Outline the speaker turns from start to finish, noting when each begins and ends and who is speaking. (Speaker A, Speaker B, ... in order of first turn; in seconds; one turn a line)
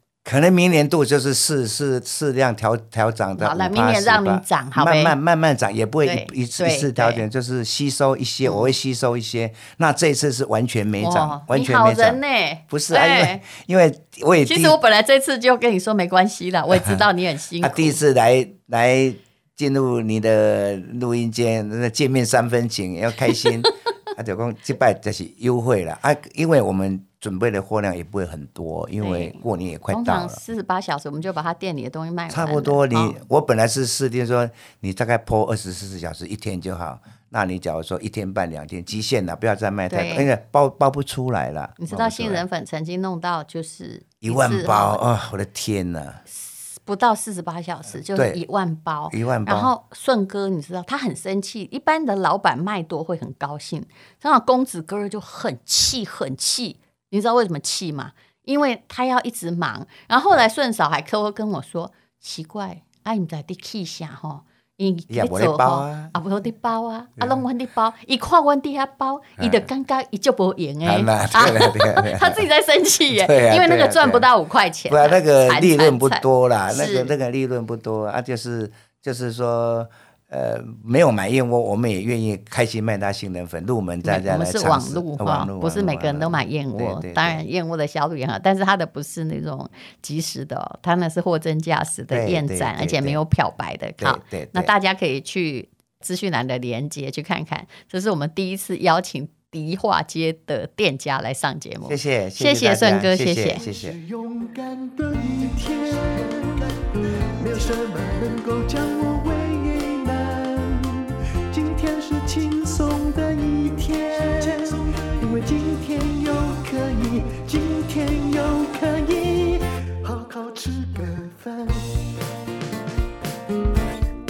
Speaker A: 0.2-14.8
Speaker B: 3.4-5.1
Speaker B: 6.0-7.2
Speaker B: 8.4-8.7
Speaker B: 11.0-13.4
Speaker B: 14.4-18.0
Speaker A: 16.7-17.0
Speaker A: 17.6-30.4
Speaker B: 29.0-33.2
Speaker A: 32.3-42.4
Speaker B: 39.9-40.3
Speaker B: 41.8-45.0
Speaker A: 44.2-46.2
Speaker B: 46.3-77.1
Speaker A: 48.1-48.4
Speaker A: 49.1-49.7
Speaker A: 65.1-66.1
Speaker A: 69.4-69.6
Speaker A: 70.8-72.4
Speaker A: 73.1-74.3
Speaker A: 74.9-87.4
Speaker B: 84.0-103.6
Speaker A: 92.1-93.2
Speaker A: 94.0-94.7
Speaker A: 101.9-104.0
Speaker C: 103.5-122.1